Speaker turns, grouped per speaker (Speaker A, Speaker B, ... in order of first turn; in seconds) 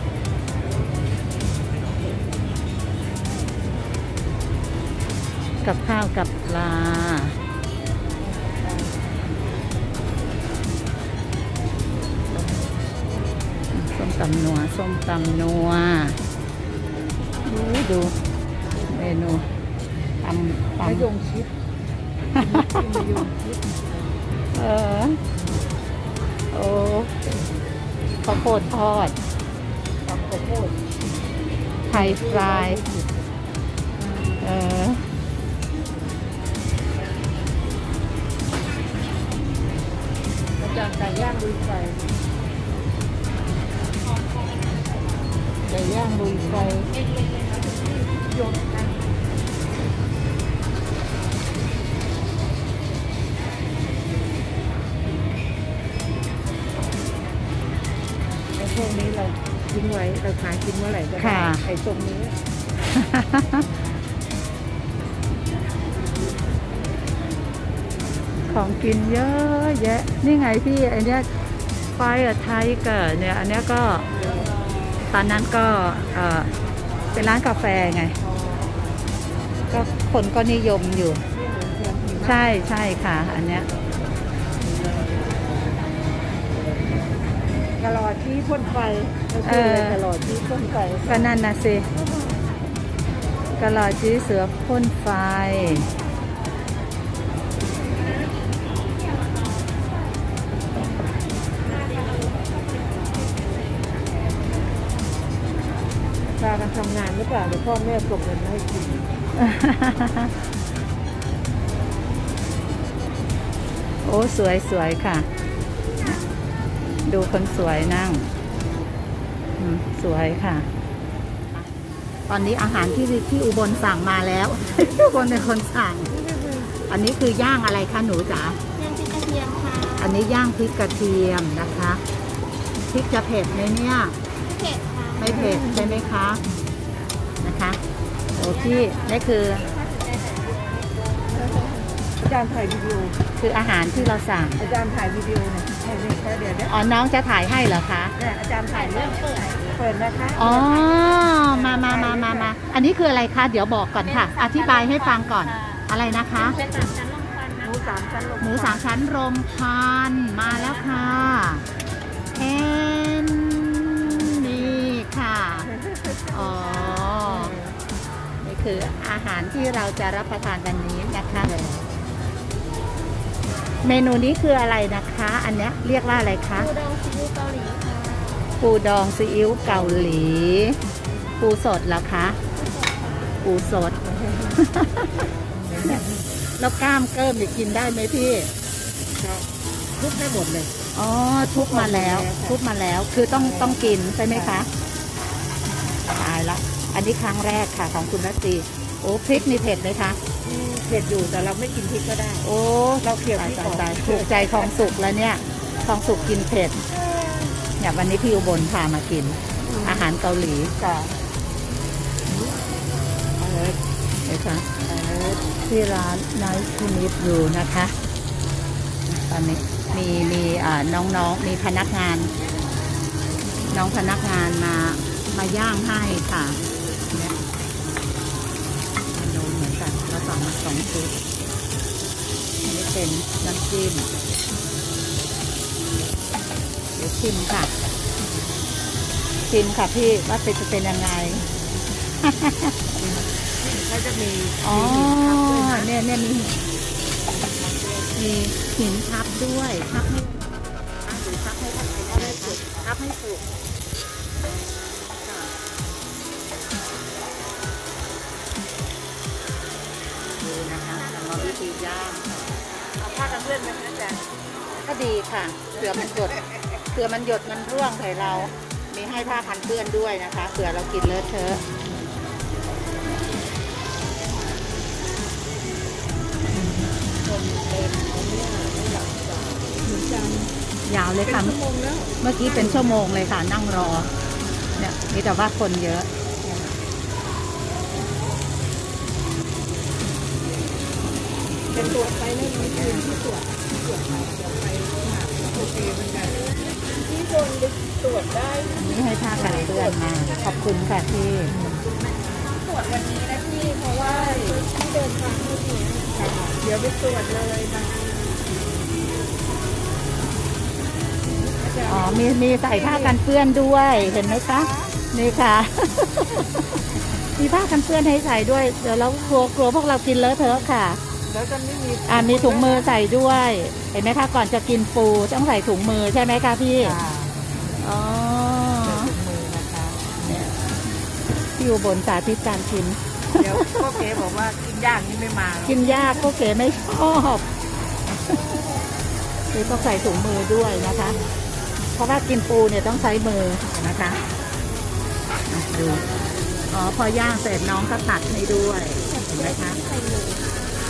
Speaker A: 5.6-7.3, 13.7-16.2, 17.4-18.1, 18.9-19.4, 20.2-21.1, 24.5-25.2, 26.5-27.1, 28.2-29.1, 31.9-32.8, 34.4-35.0, 45.7-46.9, 61.2-61.6, 62.9-63.6, 68.5-71.3, 72.0-74.1, 75.1-76.5, 77.1-78.2, 79.7-81.2, 82.2-83.7, 89.4-90.0, 91.0-91.9, 93.6-95.9, 109.4-110.3, 114.0-115.3, 117.0-118.3, 119.6-120.7, 122.3-126.1, 126.9-128.6, 130.0-132.0, 132.9-134.1, 135.2-136.4, 137.4-137.8, 138.3-139.7, 143.4-144.6, 146.7-148.1, 150.3-156.6, 158.4-161.6, 162.3-165.7, 166.3-167.5, 168.4-171.5, 173.8-176.7, 178.6-180.8, 181.4-182.4, 183.4-184.0, 184.6-185.1, 186.6-188.5, 190.9-194.7, 196.1-200.2, 202.4-206.8, 207.8-210.7, 214.2-214.9, 215.4-217.9, 219.1-222.3, 223.7-226.6, 229.1-231.1, 232.6-234.1, 237.0-237.7, 239.5-241.4, 242.2-242.7, 244.6-246.6, 248.1-250.5, 251.1-253.4, 255.2-255.5, 260.4-262.4, 264.8-271.6, 280.9-281.6, 282.2-284.1, 284.8-286.1, 291.7-293.0, 298.8-301.5, 311.9-316.6, 317.4-321.0, 322.1-327.0, 327.8-329.1, 330.2-330.5, 331.6-333.6, 335.6-337.4, 339.5-341.2, 341.9-344.2, 345.5-346.0, 346.7-349.8
Speaker B: 8.2-9.1, 12.3-13.3, 20.8-21.5, 22.3-24.2, 25.3-25.7, 30.0-30.8, 31.9-33.4, 34.0-34.4, 40.6-42.0, 45.9-46.7, 47.8-49.0, 58.5-62.3, 74.1-74.5, 78.3-78.9, 81.3-82.6, 87.8-91.4, 106.3-109.1, 124.7-125.5, 126.1-126.7, 135.3-136.0, 142.2-143.2, 143.9-146.7, 148.2-150.8, 151.5-152.5, 156.5-156.8, 157.6-158.8, 164.5-164.9, 165.6-167.8, 171.4-171.9, 179.7-180.2, 184.0-184.6, 185.1-186.2, 189.1-189.4, 190.0-190.7, 191.5-192.6, 193.3-194.7, 200.4-202.4, 203.0-204.7, 206.9-207.6, 209.6-210.1, 210.8-211.1, 212.3-212.6, 213.4-213.8, 214.8-215.4, 243.0-245.9, 247.6-248.1, 252.1-252.9, 263.0-264.2, 265.8-266.7, 276.5-280.5, 281.2-283.0, 286.4-286.7, 291.7-298.8, 299.3-300.6, 301.4-302.3, 303.8-304.6, 306.4-307.9, 311.6-313.1, 313.9-315.0, 321.2-322.9, 326.8-327.8, 328.7-330.4, 333.3-336.4, 341.1-341.3, 345.8-346.7
Speaker C: 128.8-130.3, 134.4-135.4, 138.3-141.8, 148.7-149.8, 154.0-158.1, 176.6-178.6, 182.5-183.4, 302.4-306.6, 349.1-350.6